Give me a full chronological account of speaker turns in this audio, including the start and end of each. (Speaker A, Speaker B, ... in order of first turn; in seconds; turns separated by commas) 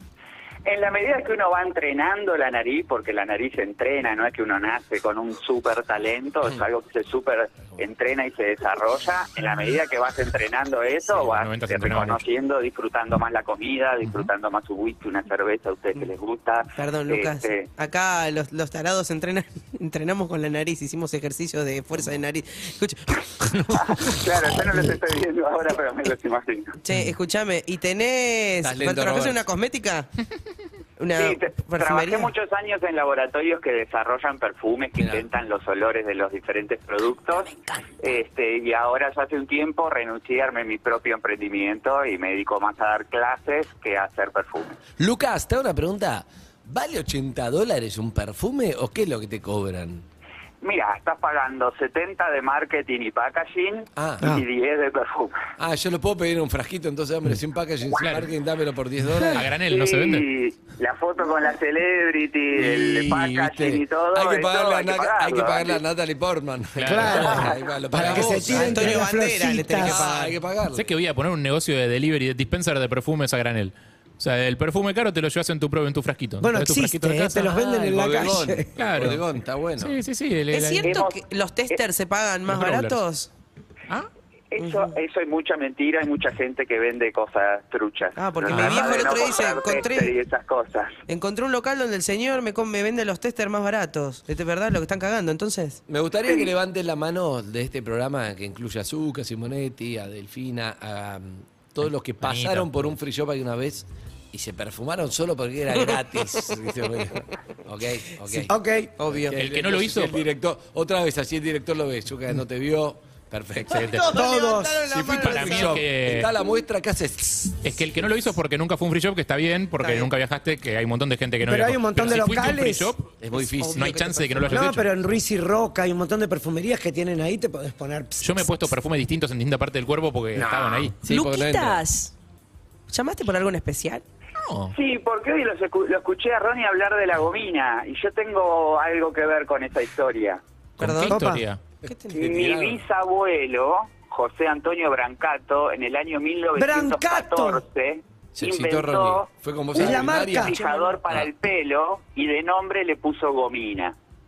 Speaker A: 0.7-17.7, Speaker B: 11.1-12.2, Speaker C: 16.8-24.1, Speaker A: 23.9-26.8, Speaker C: 26.8-30.1, Speaker D: 28.6-29.5, Speaker C: 31.0-32.3, Speaker A: 31.1-44.8, Speaker D: 35.0-35.3, Speaker D: 45.0-50.0, Speaker A: 50.6-55.4, Speaker D: 54.0-54.3, Speaker D: 55.6-59.5, Speaker B: 58.0-58.3, Speaker B: 59.3-60.3, Speaker A: 59.7-65.8, Speaker D: 62.5-69.2, Speaker B: 66.8-67.5, Speaker E: 66.9-70.1, Speaker B: 68.0-68.5, Speaker C: 68.5-70.4, Speaker D: 69.7-70.9, Speaker B: 70.7-77.6, Speaker E: 76.4-78.7, Speaker D: 77.5-80.0, Speaker B: 78.8-79.2, Speaker B: 79.8-81.0, Speaker C: 80.5-83.3, Speaker A: 80.8-81.8, Speaker B: 82.5-83.0, Speaker A: 84.5-91.0, Speaker C: 84.6-84.9, Speaker C: 88.2-90.2, Speaker D: 88.6-88.9, Speaker C: 91.1-95.8, Speaker D: 95.9-108.5, Speaker B: 101.9-102.8, Speaker E: 108.5-108.9, Speaker C: 109.0-109.4, Speaker D: 109.1-114.2, Speaker B: 109.4-110.2, Speaker C: 113.7-115.7, Speaker B: 113.8-114.1, Speaker E: 114.0-114.9, Speaker D: 114.7-117.6, Speaker B: 115.2-116.3, Speaker B: 117.6-123.1, Speaker C: 119.8-120.1, Speaker E: 121.5-122.9, Speaker D: 123.2-124.1, Speaker C: 123.4-124.6, Speaker B: 123.7-125.1, Speaker E: 124.5-128.7, Speaker B: 128.2-131.0, Speaker D: 130.3-131.8, Speaker C: 131.1-132.1, Speaker C: 132.9-134.1, Speaker B: 134.4-134.7, Speaker A: 134.7-140.4, Speaker B: 140.8-141.6, Speaker C: 140.8-141.2, Speaker E: 141.1-141.5, Speaker D: 141.8-142.8, Speaker C: 141.9-142.2, Speaker A: 142.2-149.3, Speaker E: 146.6-147.6, Speaker D: 148.3-151.3, Speaker E: 149.7-150.6, Speaker A: 150.2-153.9